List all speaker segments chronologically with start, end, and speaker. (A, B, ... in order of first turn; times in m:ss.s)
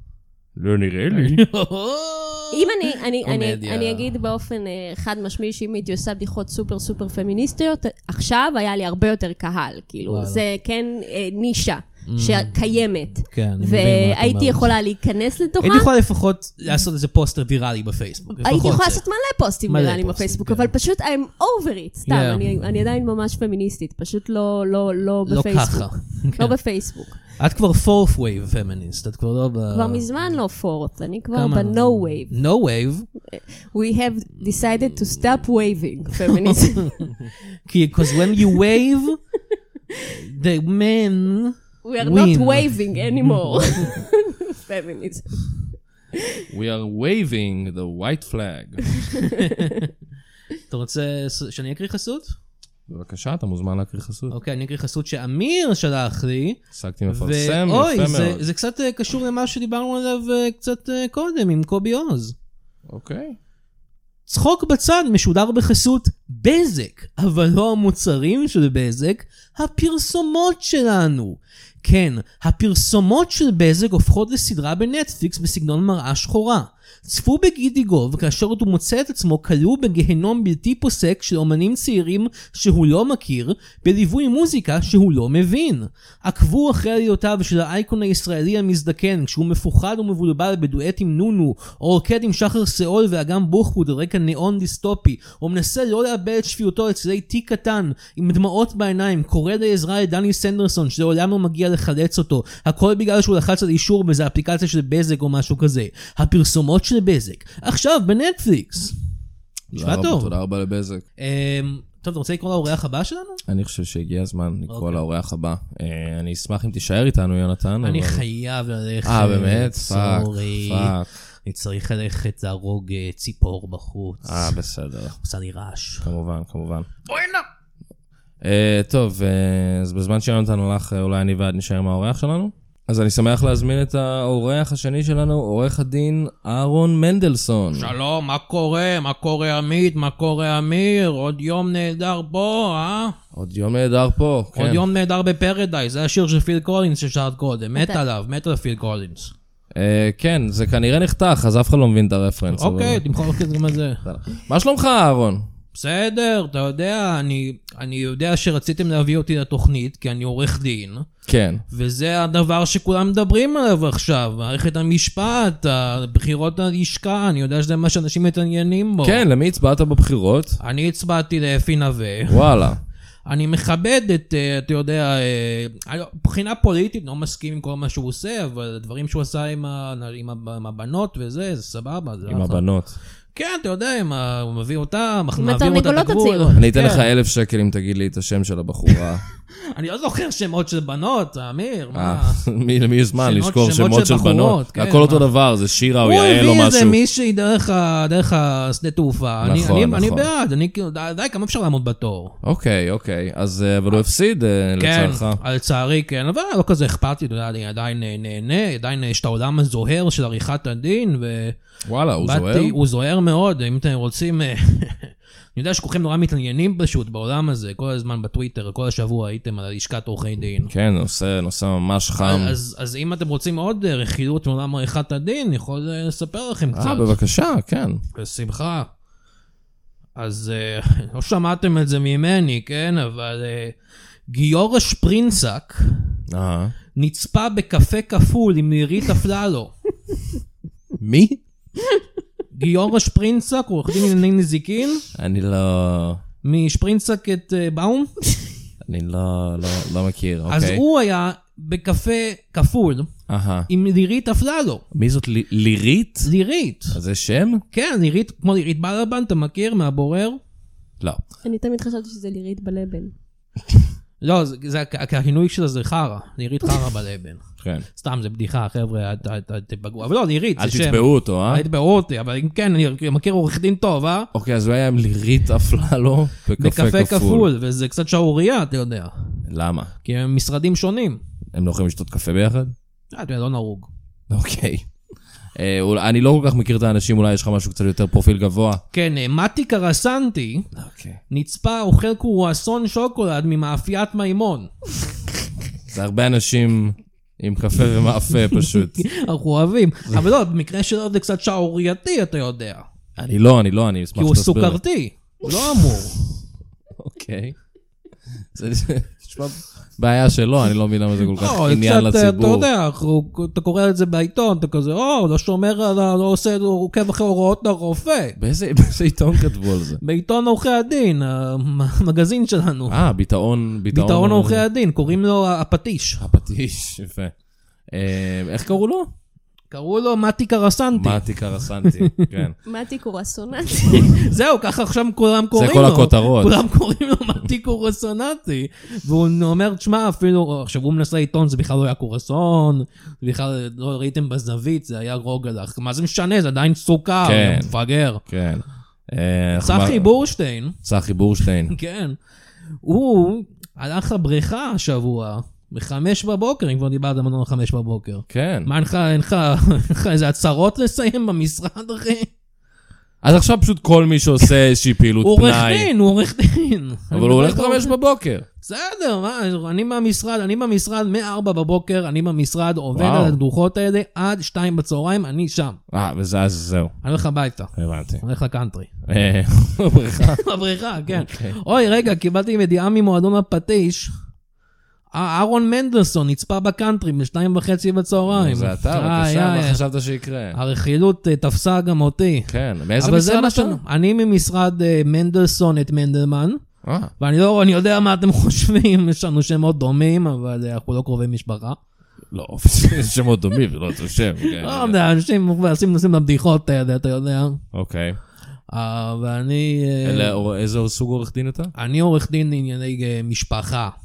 0:00.6-0:01.4 A
0:01.1-0:04.1 B
0:02.5-0:15.9 C
0:10.0-0:10.4 B
0:12.1-0:12.6 B
0:13.2-0:14.7 B
0:15.6-0:19.0 B
0:18.4-0:27.2 C
0:19.7-0:20.7 B
0:22.1-0:22.6 B
0:25.3-0:26.6 B
0:27.2-0:30.0 B
0:29.7-0:32.3 C
0:31.3-0:33.1 B
0:33.3-0:37.1 C
0:36.3-0:39.2 B
0:38.0-0:38.6 C
0:40.1-0:43.9 B
0:41.8-0:45.5 C
0:46.5-0:48.8 A
0:49.0-0:49.8 C
0:49.4-0:49.9 B
0:50.7-0:52.3 B
0:52.9-0:54.3 A
0:54.3-1:02.3 B
0:56.7-0:58.4 A
1:02.9-1:03.4 A
1:04.3-1:49.0 B
1:49.7-1:50.3 B
1:49.7-1:51.0 A
1:51.2-1:53.4 B
1:53.5-1:58.2 A
1:54.7-1:55.0 B
1:57.8-2:04.5 B
1:59.0-2:01.1 A
2:04.2-2:05.2 A
2:05.2-2:06.1 B
2:06.0-2:06.9 A
2:07.1-2:07.4 B
2:08.4-2:17.9 A
2:17.7-2:23.2 B
2:23.3-2:24.8 A
2:24.5-2:29.3 B
2:29.7-2:33.0 A
2:32.5-2:34.0 B
2:34.0-2:35.5 A
2:35.7-2:41.1 B
2:41.3-2:41.6 A
2:41.7-2:49.2 B
2:49.0-2:50.6 A
2:50.6-2:52.5 B
2:52.3-2:52.8 A
2:53.2-3:02.6 B
3:02.2-3:03.0 A
3:03.3-3:07.1 B
3:05.4-3:06.6 C
3:06.6-3:09.2 A
3:09.7-3:12.4 B
3:11.9-3:17.0 A
3:13.2-3:15.3 B
3:16.0-3:22.4 B
3:19.4-3:20.3 A
3:22.4-3:25.4 A
3:24.8-3:31.5 B
3:31.8-3:32.8 A
3:32.2-3:40.7 B
3:40.6-3:42.6 A
3:42.2-3:47.2 B
3:46.7-3:48.0 A
3:48.1-3:48.9 B
3:50.2-3:53.7 B
3:54.3-3:56.2 B
3:56.3-3:56.7 A
3:57.0-3:59.7 B
4:01.0-4:01.4 A
4:02.5-4:05.0 B
4:05.1-4:06.2 A
4:06.4-4:08.3 B
4:08.8-4:10.8 A
4:10.5-4:13.1 B
4:13.3-4:13.7 A
4:13.7-4:14.8 B
4:14.9-4:16.3 A
4:16.2-4:17.0 B
4:16.9-4:17.6 A
4:17.7-4:20.4 B
4:21.4-4:23.1 C
4:24.2-4:27.4 B
4:27.6-4:27.8 A
4:28.0-4:34.3 B
4:30.6-4:31.6 A
4:34.3-4:37.5 A
4:36.6-4:39.4 B
4:39.4-4:39.9 A
4:40.0-4:41.2 B
4:41.5-4:42.7 A
4:43.1-4:43.9 B
4:44.3-4:44.9 A
4:45.5-4:48.8 A
4:48.9-4:50.7 B
4:50.8-4:51.2 A
4:51.3-4:54.7 B
4:55.9-4:59.0 A
4:58.5-5:02.8 B
5:03.2-5:04.8 A
5:04.2-5:06.2 B
5:06.9-5:07.6 A
5:08.4-5:12.7 A
5:11.3-5:18.4 B
5:18.4-5:20.0 A
5:20.0-5:23.0 B
5:22.9-5:24.7 A
5:23.9-5:26.2 B
5:26.2-5:27.3 A
5:27.9-5:29.1 A
5:29.7-5:32.3 B
5:30.9-5:32.5 A
5:32.6-5:34.2 C
5:33.9-5:48.2 B
5:35.5-5:36.6 A
5:47.2-5:47.7 A
5:48.2-5:50.1 A
5:49.6-5:50.8 B
5:50.8-5:51.8 A
5:51.6-5:52.2 B
5:52.8-6:02.3 B
5:58.3-5:58.7 A
6:03.2-6:05.9 A
6:05.2-6:08.0 B
6:07.1-6:08.4 A
6:08.6-6:15.8 B
6:12.9-6:13.4 A
6:15.9-6:16.9 A
6:17.0-6:18.9 B
6:17.8-6:18.2 A
6:19.0-6:20.4 A
6:20.2-6:24.1 B
6:21.1-6:21.6 A
6:25.1-6:29.8 B
6:28.3-6:30.6 A
6:30.5-6:36.6 B
6:32.5-6:33.8 A
6:36.8-6:37.1 A
6:37.2-6:41.8 B
6:42.3-6:45.0 A
6:44.6-6:47.6 B
6:47.7-6:48.2 A
6:48.7-6:50.4 B
6:50.0-6:51.7 A
6:51.8-6:53.9 B